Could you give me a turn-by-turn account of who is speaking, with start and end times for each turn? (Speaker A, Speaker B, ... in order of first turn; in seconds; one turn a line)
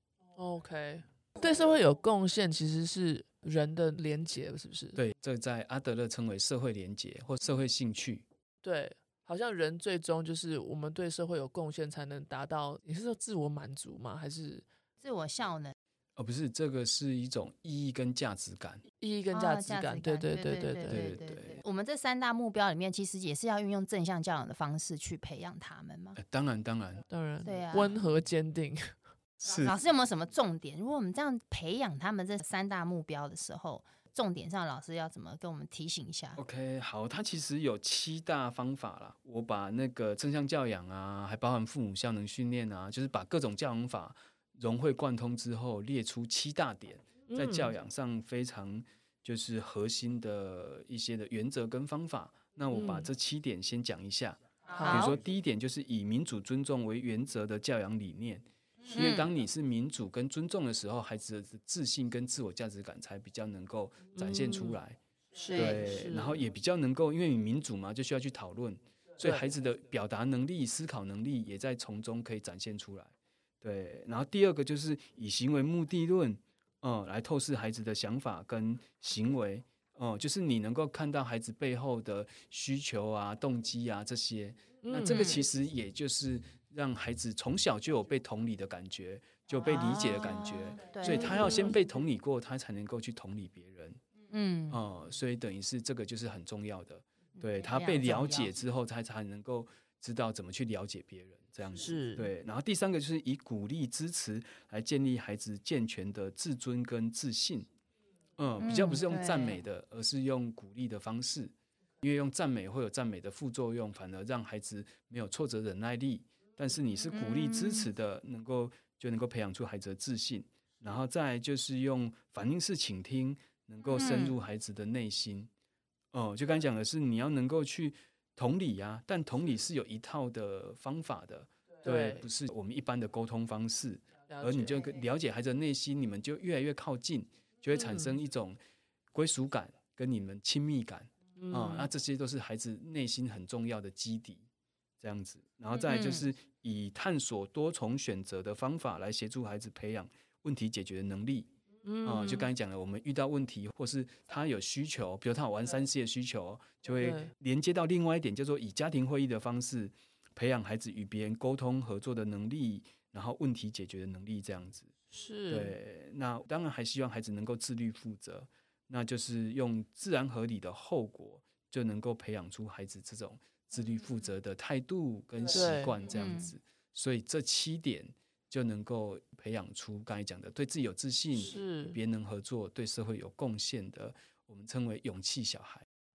Speaker A: 0.3-5.0
Speaker B: 5.0-8.2
Speaker A: 8.6-14.7
Speaker C: 15.0-15.7
Speaker B: 16.1-18.8
Speaker A: 19.0-21.0
Speaker C: 19.3-26.2
Speaker B: 20.9-21.6
Speaker B: 26.2-27.0
Speaker A: 27.1-28.9
Speaker C: 27.4-28.0
Speaker B: 29.4-29.7
Speaker C: 29.5-36.4
Speaker B: 36.4-65.0
Speaker A: 47.3-47.7
Speaker A: 52.7-53.1
Speaker C: 54.7-55.1
Speaker A: 54.7-55.1
Speaker C: 58.8-59.3
Speaker A: 64.2-64.8
Speaker A: 65.3-66.4
Speaker C: 65.4-65.9
Speaker B: 65.5-94.0
Speaker A: 84.8-85.4
Speaker C: 89.6-91.7
Speaker A: 91.0-91.8
Speaker C: 94.3-94.8
Speaker B: 94.7-107.7
Speaker C: 97.4-98.5
Speaker A: 101.8-102.3
Speaker B: 108.4-125.5
Speaker C: 108.6-109.6
Speaker C: 117.1-117.9
Speaker C: 123.9-124.3
Speaker B: 126.1-138.6
Speaker A: 131.8-132.3
Speaker A: 134.3-134.8
Speaker A: 137.7-138.2
Speaker B: 139.1-144.4
Speaker A: 141.4-141.9
Speaker B: 145.0-151.5
Speaker C: 145.8-146.2
Speaker A: 151.8-152.5
Speaker B: 152.0-164.9
Speaker A: 157.0-157.3
Speaker A: 165.1-165.8
Speaker B: 165.5-185.8
Speaker A: 175.5-176.0
Speaker C: 176.1-176.5
Speaker A: 181.3-182.0